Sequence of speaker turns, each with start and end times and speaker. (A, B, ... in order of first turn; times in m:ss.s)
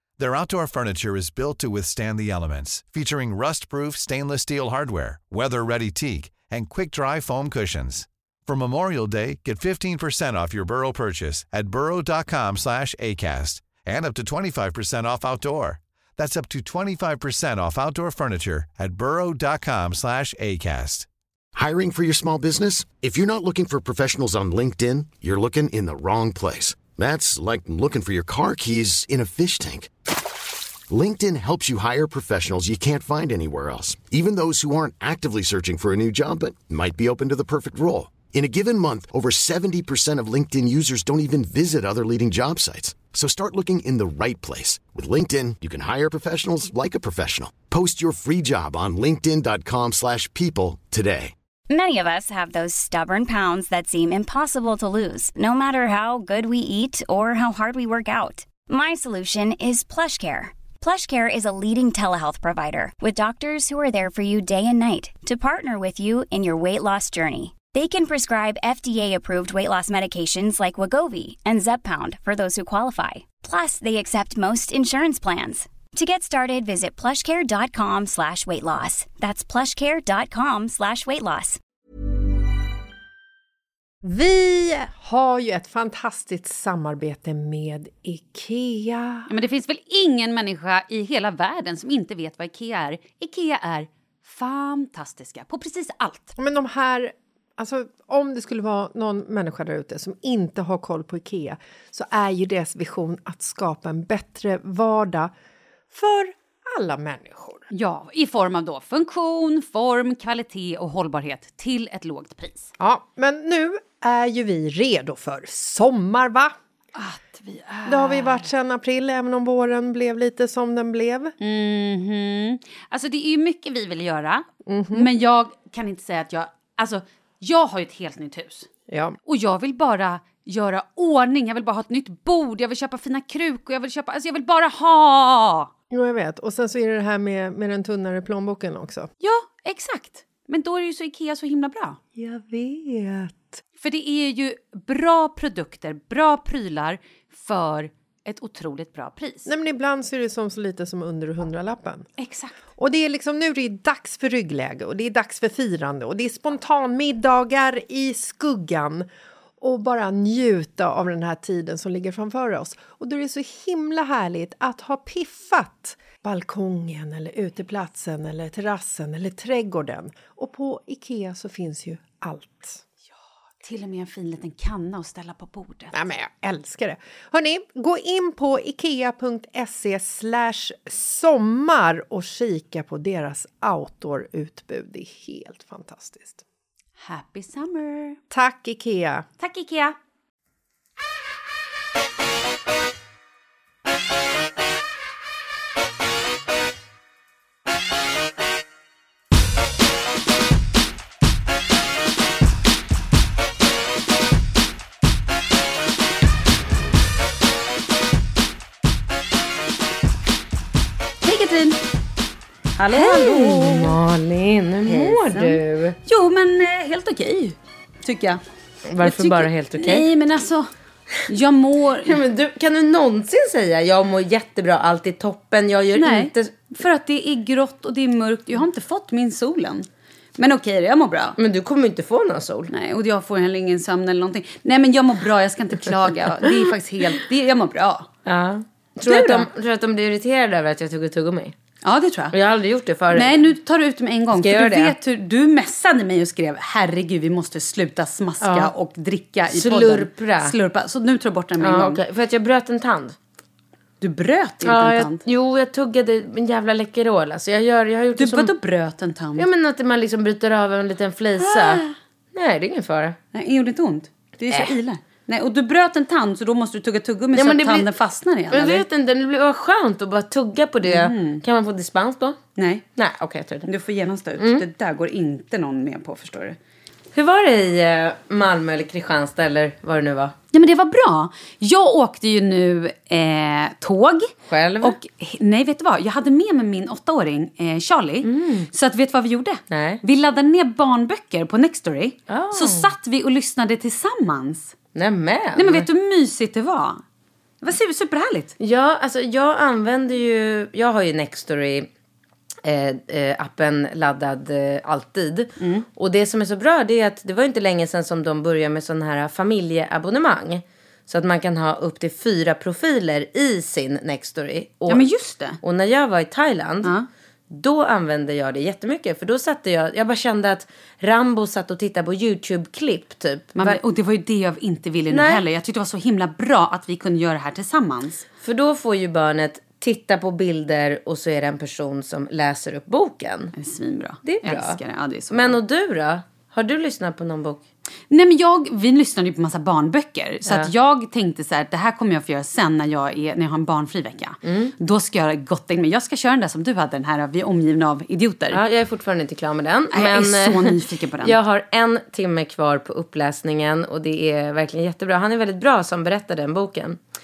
0:00.2-0:21.1 A
0:21.5-0:29.9 B
0:30.9-0:51.3 B
0:51.7-1:21.6 C
1:24.0-1:29.3 D
1:29.3-1:36.3 E
1:36.4-1:45.3 D
1:45.9-1:47.7 D
1:47.7-1:52.7 E
1:52.8-1:56.5 D
1:57.0-1:58.5 E
1:57.8-2:01.3 D
2:01.4-2:08.7 E
2:04.6-2:05.1 D
2:08.9-2:09.2 D
2:09.2-2:15.7 E
2:15.9-2:19.1 D
2:19.2-2:22.0 E
2:22.2-2:23.6 D
2:23.8-2:29.5 E
2:29.4-2:32.1 D
2:32.2-2:32.6 E
2:32.8-2:39.1 D
2:39.6-2:52.8 D
2:53.6-2:55.9 E
2:55.9-3:06.4 D
3:07.0-3:08.2 E
3:08.3-3:09.2 D
3:09.4-3:10.0 E
3:31.2-3:31.8 E
3:32.8-3:34.0 E
3:32.9-3:36.0 F
3:34.8-3:38.4 E
3:38.9-3:40.1 F
3:39.0-3:40.7 E
3:41.2-3:42.2 E
3:42.0-3:46.6 F
3:46.0-3:51.4 E
3:51.4-3:52.7 F
3:52.7-3:58.1 E
3:58.2-4:01.6 F
3:59.0-3:59.5 E
4:01.8-4:02.3 E
4:02.3-4:03.5 F
4:03.1-4:12.0 E
4:04.3-4:05.0 F
4:08.4-4:08.7 F
4:09.5-4:10.5 F
4:11.6-4:13.2 F
4:14.0-4:15.2 E
4:14.6-4:18.5 F
4:18.2-4:19.5 E
4:19.4-4:23.2 F
4:21.4-4:21.9 E
4:23.3-4:28.8 E
4:27.3-4:27.9 F
4:28.5-4:32.4 F
4:30.8-4:31.4 E
4:32.6-4:32.8 E
4:33.0-4:33.7 F
4:33.6-4:36.6 E
4:34.4-4:34.6 F
4:37.1-4:40.3 F
4:40.5-4:54.7 E
4:44.5-4:45.0 F
4:48.2-4:48.7 F
4:49.7-4:50.0 F
4:52.3-4:52.9 F
4:54.9-4:55.9 F
4:55.6-4:57.0 E
4:57.6-4:58.5 E
4:58.6-5:01.9 F
5:02.6-5:15.0 F
5:05.6-5:05.8 E
5:14.9-5:15.6 E
5:15.6-5:16.9 F
5:17.5-5:23.8 F
5:23.5-5:28.2 E
5:25.1-5:25.4 F
5:28.4-5:33.5 F
5:33.5-5:35.6 E
5:34.2-5:37.6 F
5:38.1-5:48.6 E
5:44.4-5:44.7 F
5:48.5-5:57.0 F
5:49.9-5:51.4 E